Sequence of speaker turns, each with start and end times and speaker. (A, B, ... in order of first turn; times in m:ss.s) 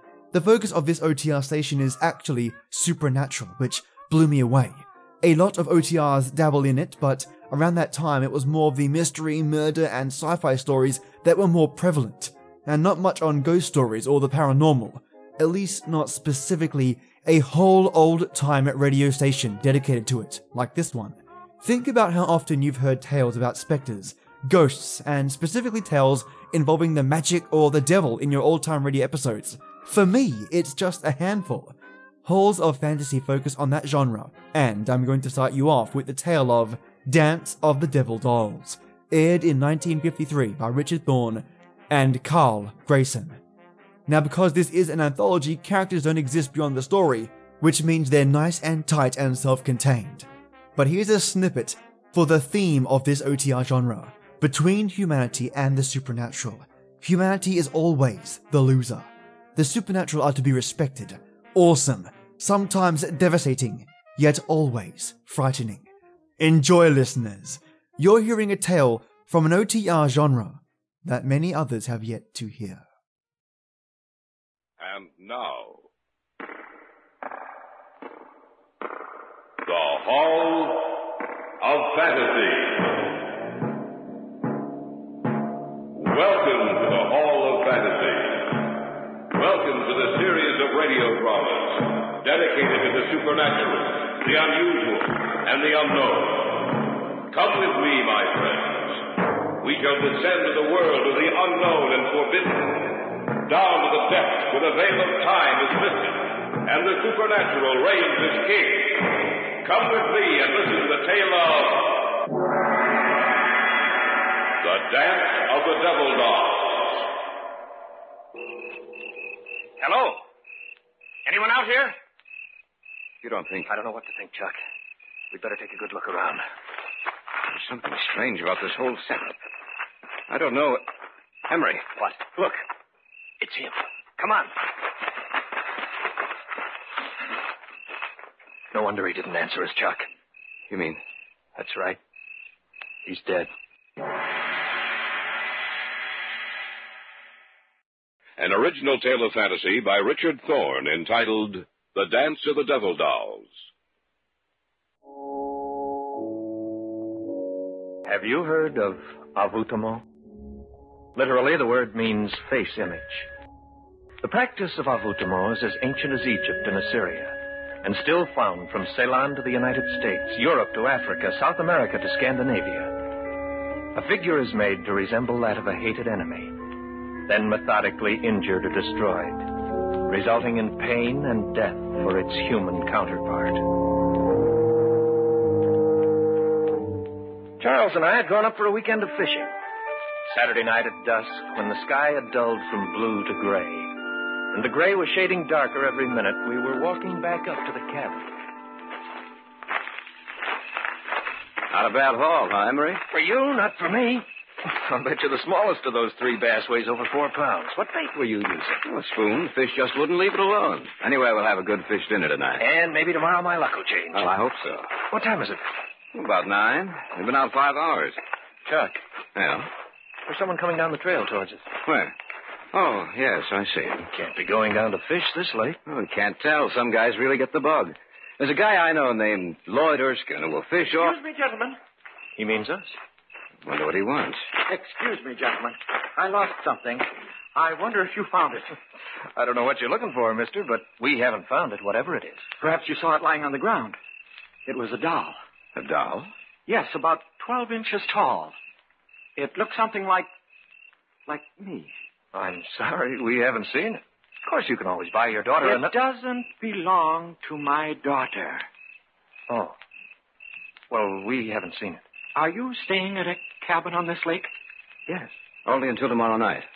0:00.3-0:43.4 A
0:44.1-1:05.9 A
1:06.4-1:12.8 A
1:14.8-1:15.9 B
1:19.6-1:21.0 B
1:21.6-1:23.0 B
1:25.9-1:28.8 B
1:29.3-1:52.2 B
1:54.6-1:57.1 B
1:59.8-2:00.2 C
2:01.2-2:02.0 C
2:03.2-2:03.7 D
2:03.7-2:04.6 C
2:05.3-2:06.4 C
2:07.5-2:09.4 D
2:10.3-2:10.8 D
2:11.5-2:11.8 D
2:11.9-2:12.6 C
2:13.4-2:14.5 C
2:18.7-2:20.1 C
2:20.7-2:21.0 D
2:21.6-2:22.0 C
2:23.0-2:23.5 C
2:28.4-2:33.7 B
2:38.0-2:40.0 C
2:41.1-2:43.3 C
2:44.2-2:53.0 C
2:53.9-2:56.6 C
2:57.2-2:59.5 C
3:00.0-3:03.6 C
3:07.6-3:09.5 C
3:10.3-3:13.9 C
3:14.5-3:18.3 C
3:21.7-3:23.0 D
3:23.1-3:28.8 C
3:28.8-3:32.6 D
3:32.6-3:34.3 C
3:34.1-3:34.9 D
3:35.1-3:35.6 C
3:36.1-3:38.2 D
3:38.6-3:39.0 C
3:39.3-3:39.7 D
3:40.2-3:41.7 C
3:41.8-3:42.1 D
3:42.7-3:44.1 D
3:44.1-3:45.8 C
3:45.8-3:51.2 D
3:50.9-3:51.8 E
3:52.4-3:53.0 C
3:53.6-3:54.5 D
3:54.6-3:58.7 E
3:59.4-4:02.5 C
4:02.6-4:04.0 E
4:04.6-4:05.4 E
4:05.7-4:06.3 D
4:06.7-4:08.5 E
4:09.4-4:10.3 E
4:11.3-4:11.9 E
4:12.3-4:15.9 C
4:15.6-4:18.7 E
4:19.5-4:19.8 C
4:20.9-4:22.0 C
4:22.3-4:24.5 E
4:25.6-4:26.7 D